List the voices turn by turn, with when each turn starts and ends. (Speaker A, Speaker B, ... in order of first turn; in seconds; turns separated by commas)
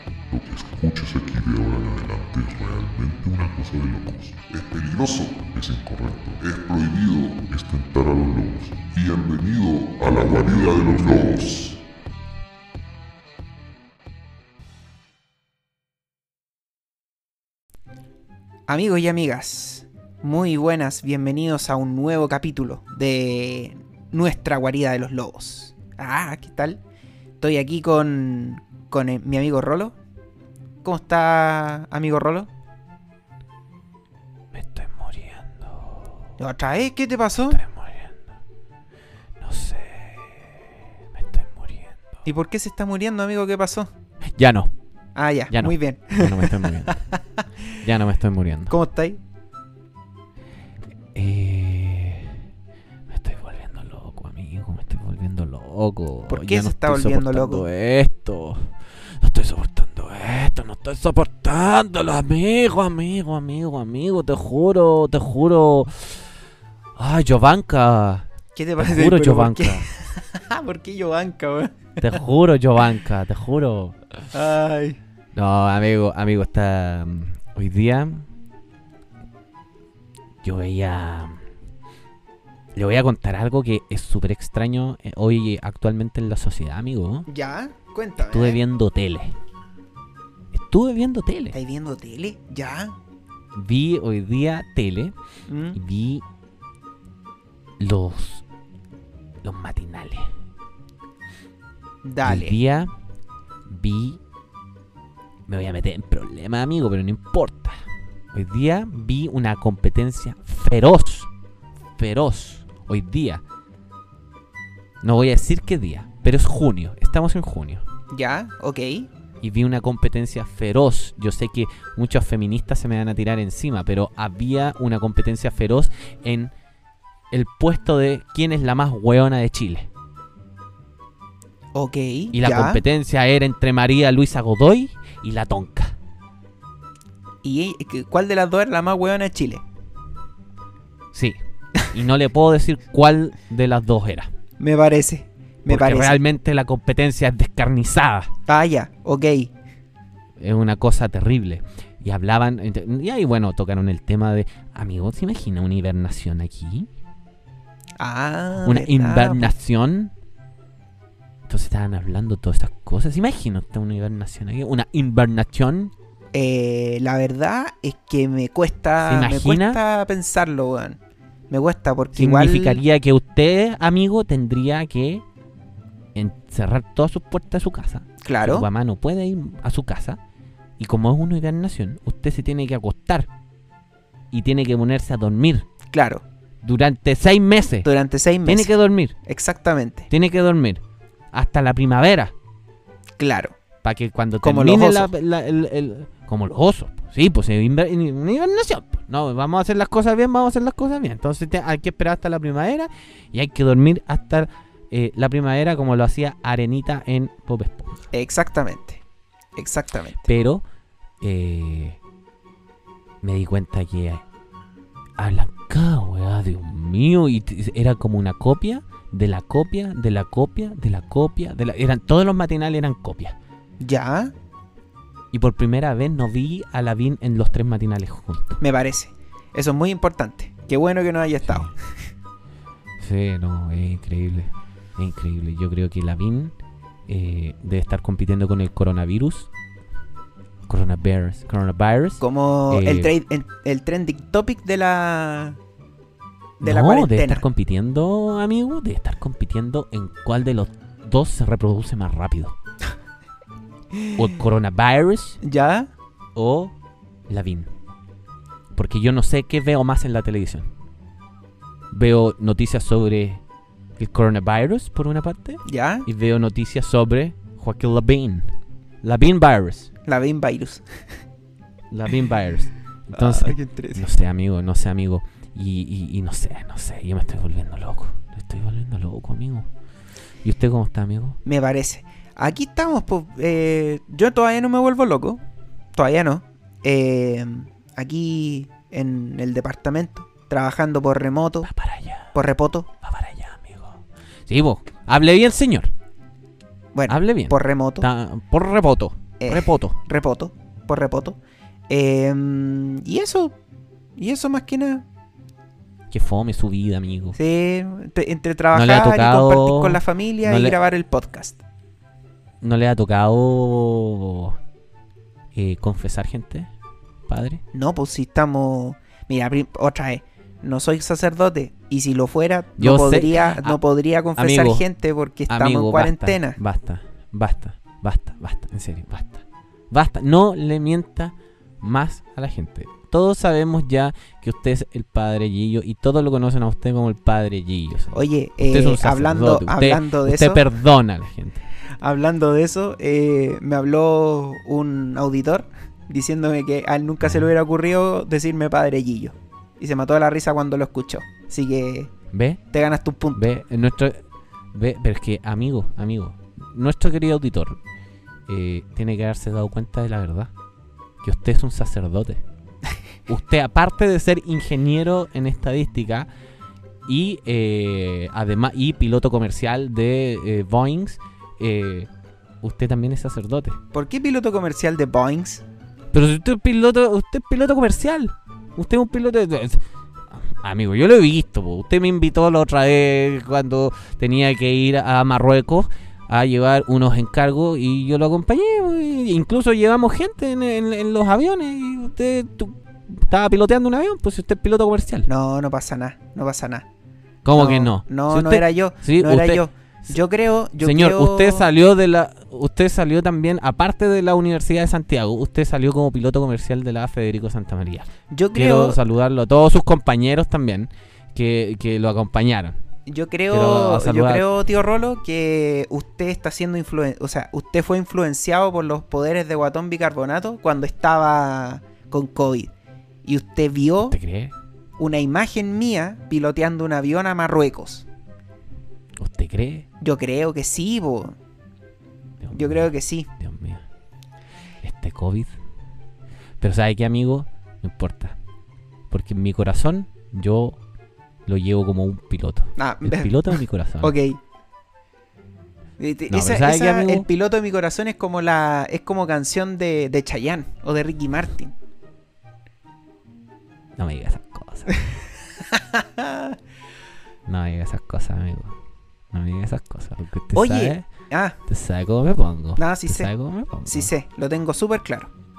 Speaker A: 0.3-11.8, Speaker B: 18.7-26.8, Speaker B: 27.4-30.0, Speaker B: 30.8-32.5, Speaker C: 34.5-36.1, Speaker B: 36.4-37.6, Speaker C: 37.5-38.2, Speaker C: 39.4-40.4, Speaker C: 41.1-42.0, Speaker B: 42.2-43.9, Speaker C: 44.4-44.7, Speaker B: 45.1-47.7, Speaker C: 45.5-47.0, Speaker C: 47.8-48.8, Speaker B: 48.7-49.2, Speaker C: 51.1-52.4, Speaker C: 53.1-66.2, Speaker B: 56.3-57.7, Speaker C: 67.0-68.3, Speaker B: 68.5-72.1, Speaker C: 68.8-69.9, Speaker C: 72.0-74.0, Speaker B: 74.3-75.0, Speaker C: 75.3-78.3, Speaker C: 80.4-81.4, Speaker C: 82.8-87.3, Speaker B: 87.3-88.6, Speaker C: 88.2-89.4, Speaker C: 90.5-91.6, Speaker B: 91.5-93.0, Speaker C: 93.5-95.2, Speaker B: 95.5-95.8, Speaker C: 95.7-96.2, Speaker C: 97.8-98.4, Speaker C: 99.4-100.3, Speaker B: 102.0-102.6, Speaker C: 102.2-102.9, Speaker C: 103.7-104.2, Speaker C: 105.5-107.8, Speaker C: 108.3-111.3, Speaker C: 112.0-113.4, Speaker C: 115.0-117.8, Speaker B: 118.1-119.1, Speaker C: 119.4-126.5, Speaker C: 127.3-129.9, Speaker B: 131.7-132.8, Speaker C: 132.3-136.0, Speaker B: 137.4-139.6, Speaker C: 141.1-144.3, Speaker B: 144.6-146.2, Speaker C: 145.7-148.3, Speaker B: 148.5-149.5, Speaker C: 150.4-156.9, Speaker B: 158.0-159.6, Speaker C: 158.6-160.1, Speaker C: 161.5-165.9, Speaker B: 166.3-171.0, Speaker C: 169.0-169.8, Speaker B: 171.5-172.8, Speaker C: 172.1-175.2, Speaker C: 176.2-180.2, Speaker B: 178.2-178.7, Speaker C: 180.8-183.3, Speaker C: 184.3-185.7, Speaker B: 185.9-186.2, Speaker C: 186.6-187.9, Speaker B: 187.8-188.7, Speaker C: 188.4-189.2, Speaker B: 189.2-190.1, Speaker C: 190.1-190.8, Speaker C: 191.3-192.3, Speaker B: 193.2-193.6, Speaker C: 193.8-208.0, Speaker B: 194.4-195.1, Speaker B: 208.1-209.0, Speaker B: 209.6-210.3, Speaker C: 210.3-210.6, Speaker C: 211.2-212.0, Speaker C: 213.2-214.2, Speaker C: 215.2-223.4, Speaker B: 223.8-224.3, Speaker C: 225.3-228.6, Speaker B: 228.6-231.7, Speaker C: 231.4-231.7, Speaker C: 233.0-236.5, Speaker C: 237.1-239.5, Speaker C: 240.7-243.1, Speaker B: 242.2-245.6, Speaker B: 246.6-247.4, Speaker C: 246.6-252.6, Speaker C: 254.1-255.4, Speaker B: 255.4-255.9, Speaker C: 256.4-256.7, Speaker C: 257.3-257.7, Speaker C: 258.8-260.7, Speaker C: 261.9-263.4, Speaker C: 264.0-268.5, Speaker B: 265.7-266.1, Speaker C: 269.0-269.9, Speaker B: 270.1-270.9, Speaker C: 271.9-279.7, Speaker B: 273.1-274.1, Speaker C: 280.4-281.4, Speaker B: 281.4-285.4, Speaker B: 285.9-291.7, Speaker C: 291.6-292.4, Speaker B: 292.4-292.9, Speaker C: 293.0-295.9, Speaker B: 296.9-298.1, Speaker C: 297.1-300.0, Speaker B: 299.4-301.4, Speaker B: 301.9-303.6, Speaker B: 304.2-305.1, Speaker C: 306.1-307.4, Speaker B: 307.4-311.6, Speaker C: 308.7-310.8, Speaker C: 312.6-314.6, Speaker C: 315.6-316.7, Speaker C: 317.3-317.6, Speaker B: 317.7-326.6, Speaker C: 322.8-323.8, Speaker C: 324.4-324.9, Speaker C: 325.5-341.6, Speaker B: 338.1-340.6, Speaker B: 342.0-352.1, Speaker C: 347.2-347.5, Speaker C: 352.3-352.6, Speaker B: 352.7-353.5, Speaker C: 353.4-357.8, Speaker C: 358.5-360.5, Speaker C: 361.2-362.4, Speaker C: 363.3-366.3, Speaker C: 367.1-372.1, Speaker C: 372.6-373.8, Speaker B: 373.9-375.6, Speaker C: 376.1-395.3, Speaker B: 395.3-396.9, Speaker C: 397.4-400.1, Speaker B: 397.6-401.7, Speaker C: 400.8-412.8, Speaker B: 408.3-409.0, Speaker B: 413.1-422.7, Speaker C: 413.5-414.4, Speaker B: 423.2-424.2, Speaker C: 424.1-424.5, Speaker B: 425.0-428.1, Speaker C: 429.2-429.9, Speaker B: 430.0-431.4, Speaker C: 432.4-433.9, Speaker B: 432.5-433.3, Speaker C: 434.8-435.6, Speaker C: 436.6-438.4, Speaker C: 439.1-440.8, Speaker C: 441.5-444.1, Speaker B: 442.8-444.4, Speaker B: 446.0-451.8, Speaker C: 446.3-447.3, Speaker C: 454.0-454.9, Speaker B: 455.1-456.6, Speaker C: 457.5-458.8, Speaker C: 459.3-461.1, Speaker B: 460.6-461.6, Speaker C: 461.7-464.1, Speaker B: 462.8-463.3, Speaker B: 463.9-465.3